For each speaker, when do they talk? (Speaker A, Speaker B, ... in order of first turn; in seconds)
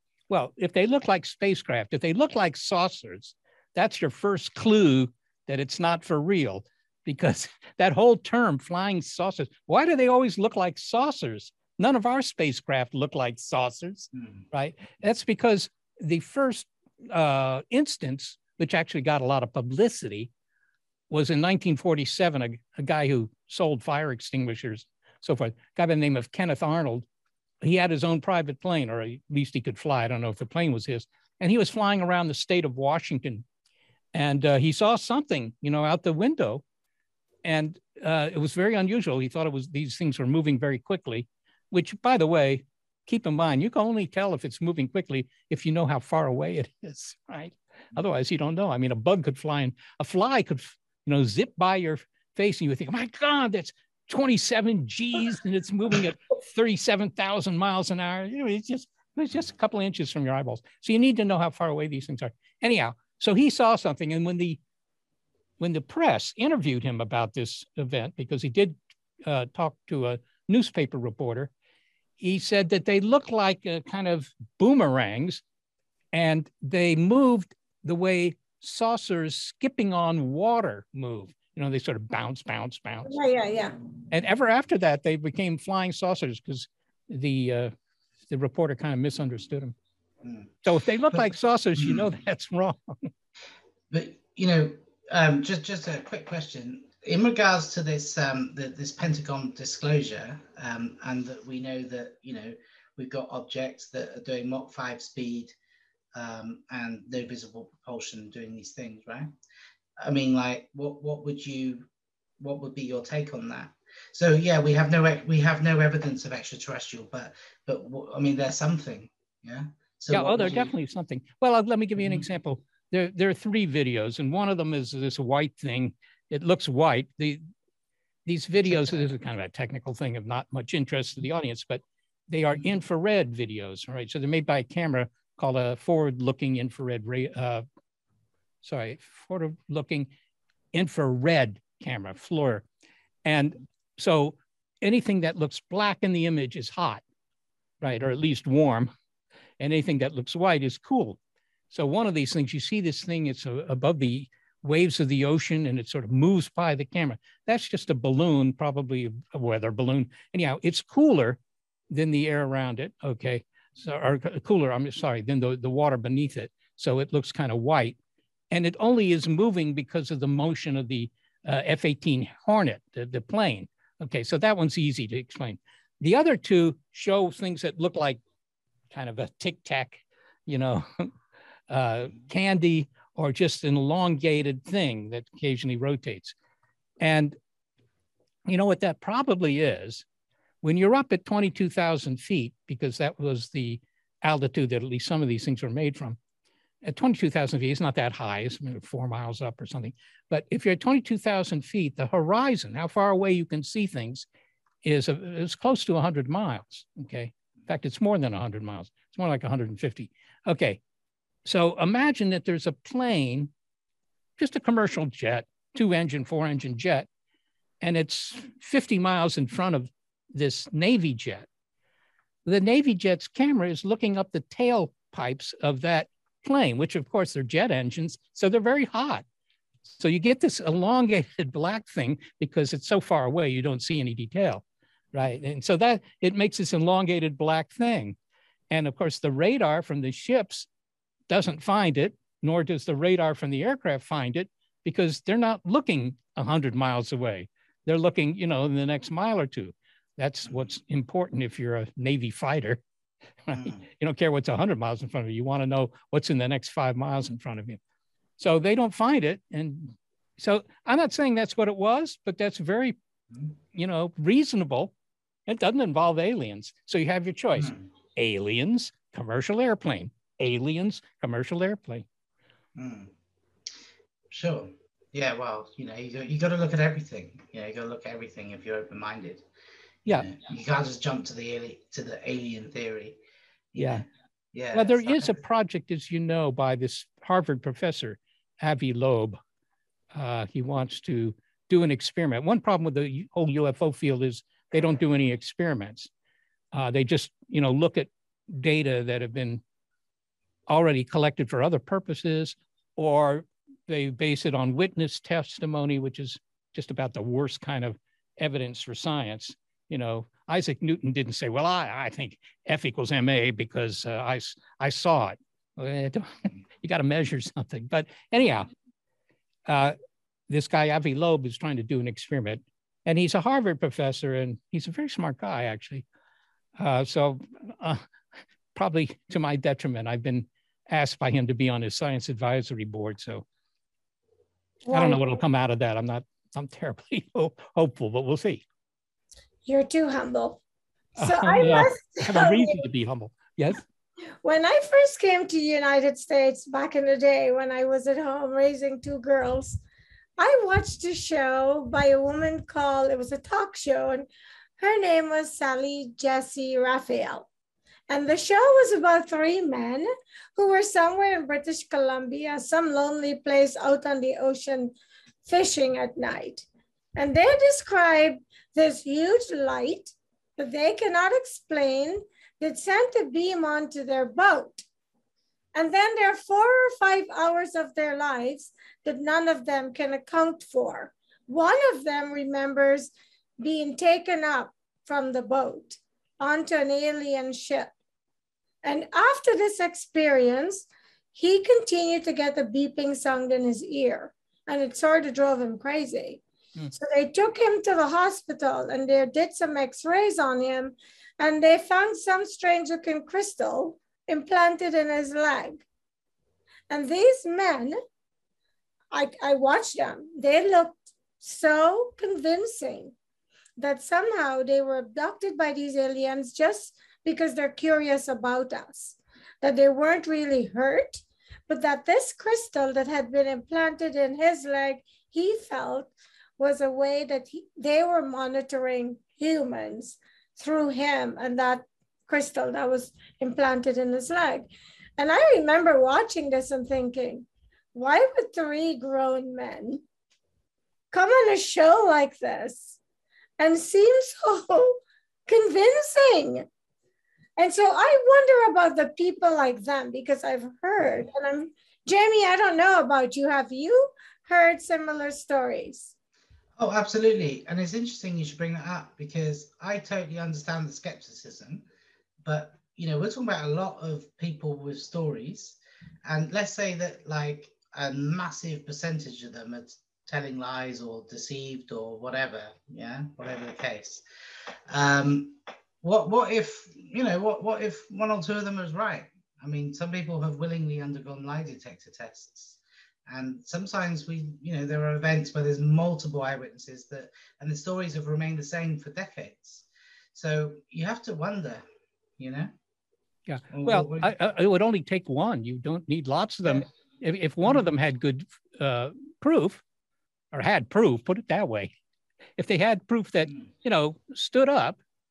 Speaker A: 0.3-20.3, 21.1-27.1, 27.6-33.5, 34.1-36.6, 37.4-64.6, 65.6-71.5, 72.2-75.4, 76.1-83.2, 84.1-87.7, 88.3-89.8, 90.7-93.1, 120.1-127.4, 128.3-137.6, 138.6-140.1, 140.7-142.7, 143.2-147.0, 147.8-148.9, 149.6-151.2, 151.7-161.4, 161.9-168.0, 168.5-178.2, 178.9-181.1, 181.7-186.3, 187.0-187.4, 188.5-190.1, 190.6-196.2, 196.8-204.3, 204.8-210.8, 211.4-213.5, 214.4-217.1, 217.8-221.5, 222.5-229.2, 230.0-238.2, 238.7-240.7, 241.3-252.8, 253.5-257.8, 258.4-263.0, 263.7-264.9, 265.5-272.1, 283.8-284.0, 284.7-289.4, 290.1-296.1, 296.7-299.6, 300.7-318.7, 319.7-319.9, 320.5-326.1, 326.8-328.0, 328.8-333.5, 334.9-338.6, 341.2-343.8, 493.5-499.8, 500.5-501.9, 502.6-505.0
Speaker B: 83.0-83.8, 334.9-335.2, 339.7-340.6, 341.2-342.8, 344.4-349.8, 350.4-354.3, 354.8-357.5, 358.1-374.9, 375.7-387.9, 388.8-405.9, 406.9-408.0, 409.1-413.1, 413.8-440.0, 441.1-443.0, 443.6-446.7, 447.6-456.1
Speaker C: 90.2-90.5, 91.8-92.1, 93.9-105.5, 106.2-109.3, 110.0-111.9, 112.4-120.7, 122.0-122.2, 128.6-129.1, 253.5-253.8, 272.8-273.1, 274.3-279.4, 280.2-283.2, 283.7-285.4, 456.8-461.9, 462.4-474.2, 474.9-491.8, 492.4-492.7, 493.7-494.3